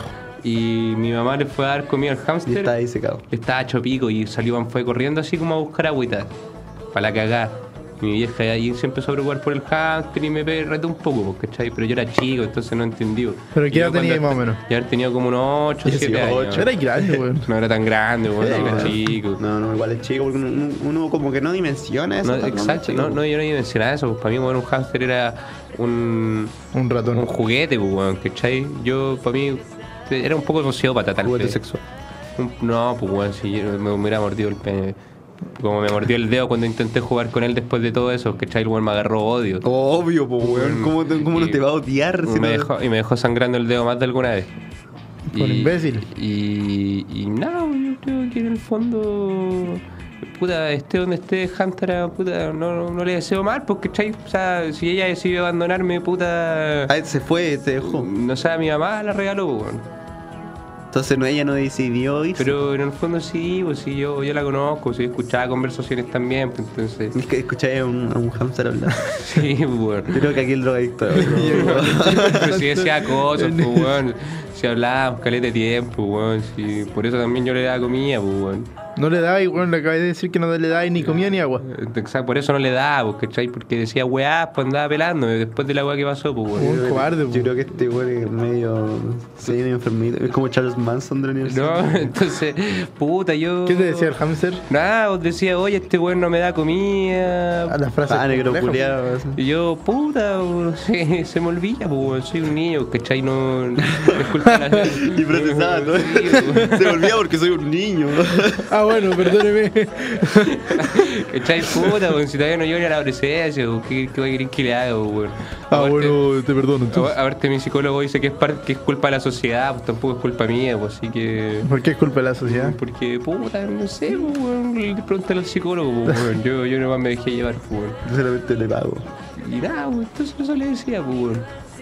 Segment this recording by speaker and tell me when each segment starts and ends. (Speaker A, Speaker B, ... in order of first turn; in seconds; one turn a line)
Speaker A: 0.4-2.7
Speaker B: 2.5-3.2
Speaker A: 3.3-6.3
Speaker A: 6.9-16.7
Speaker C: 13.6-14.6
Speaker B: 15.8-16.8
Speaker C: 16.6-17.5
Speaker A: 17.4-19.4
Speaker B: 18.4-23.2
Speaker C: 18.4-19.0
Speaker A: 22.2-26.6
Speaker C: 26.7-27.3
Speaker A: 27.1-31.6
Speaker B: 31.2-31.8
Speaker A: 32.4-35.0
Speaker A: 35.5-39.7
Speaker B: 39.6-42.7
Speaker A: 40.4-41.6
Speaker A: 42.2-44.5
Speaker C: 45.3-46.1
Speaker A: 45.3-49.8
Speaker A: 50.4-57.0
Speaker B: 56.9-58.1
Speaker A: 57.8-59.9
Speaker B: 60.9-62.6
Speaker A: 62.4-67.2
Speaker B: 67.1-69.2
Speaker A: 69.1-70.4
Speaker B: 70.1-72.6
Speaker C: 71.2-74.0
Speaker A: 71.2-78.7
Speaker C: 79.0-81.6
Speaker A: 81.6-86.8
Speaker B: 86.6-92.2
Speaker C: 86.6-87.5
Speaker A: 91.4-97.8
Speaker C: 93.7-94.6
Speaker C: 97.7-98.8
Speaker B: 98.1-99.4
Speaker A: 99.4-107.2
Speaker B: 103.9-104.2
Speaker B: 104.8-108.7
Speaker C: 108.7-110.8
Speaker A: 110.5-116.2
Speaker C: 115.7-117.1
Speaker A: 116.9-121.7
Speaker C: 121.6-122.8
Speaker A: 122.4-128.0
Speaker B: 128.1-129.1
Speaker A: 129.4-131.5